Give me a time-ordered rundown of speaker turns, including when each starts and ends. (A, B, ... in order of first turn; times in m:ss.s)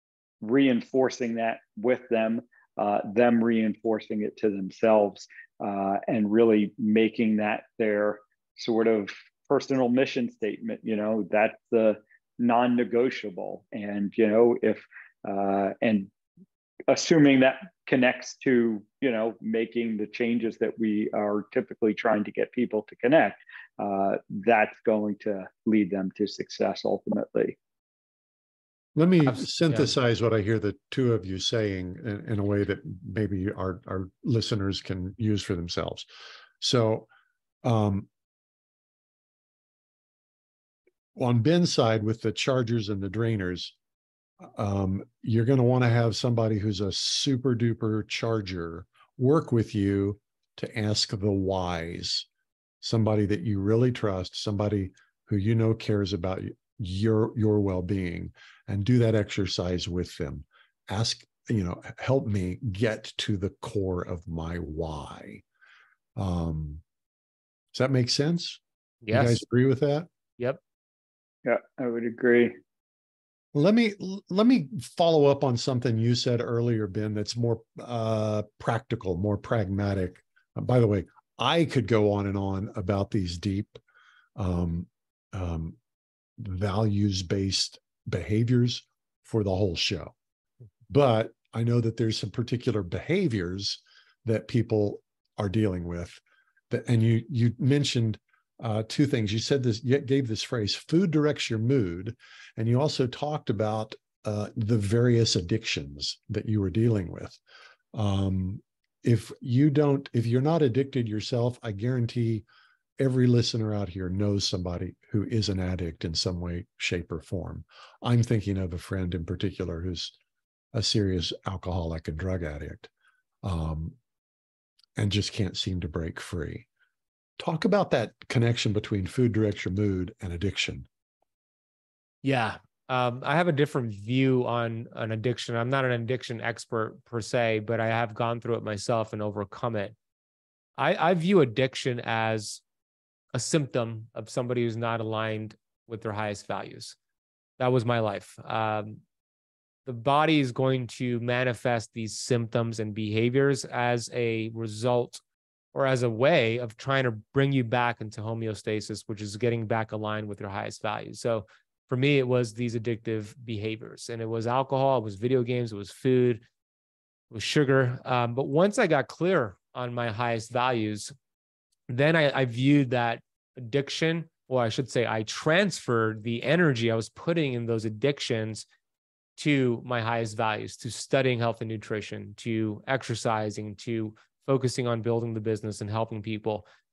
0:00.4-0:16.1 A
0:16.9-0:27.6 A
0:28.9-0:36.1 B
0:29.2-0:29.9 C
0:36.6-0:37.1 B
0:37.6-0:38.1 B
0:41.1-0:43.7 B
0:44.4-0:52.3 B
0:52.8-1:05.4 B
1:06.2-1:06.8 B
1:07.7-1:08.6 B
1:09.0-1:09.4 C
1:09.1-1:10.1 B
1:11.4-1:12.5 A
1:13.5-1:23.8 B
1:24.4-1:25.8 B
1:26.4-1:30.1 B
1:30.9-1:47.4 B
1:47.9-1:52.4 B
1:53.0-2:00.1 B
2:00.7-2:02.9 B
2:03.4-2:04.0 B
2:05.0-2:06.6 B
2:07.4-2:10.9 B
2:12.2-2:19.9 C
2:20.8-2:22.6 C
2:23.3-2:27.0 C
2:27.6-2:29.0 C
2:29.8-2:35.2 C
2:35.7-2:46.4 C
2:47.3-2:51.1 C
2:51.9-2:58.6 C
2:59.4-3:06.6 C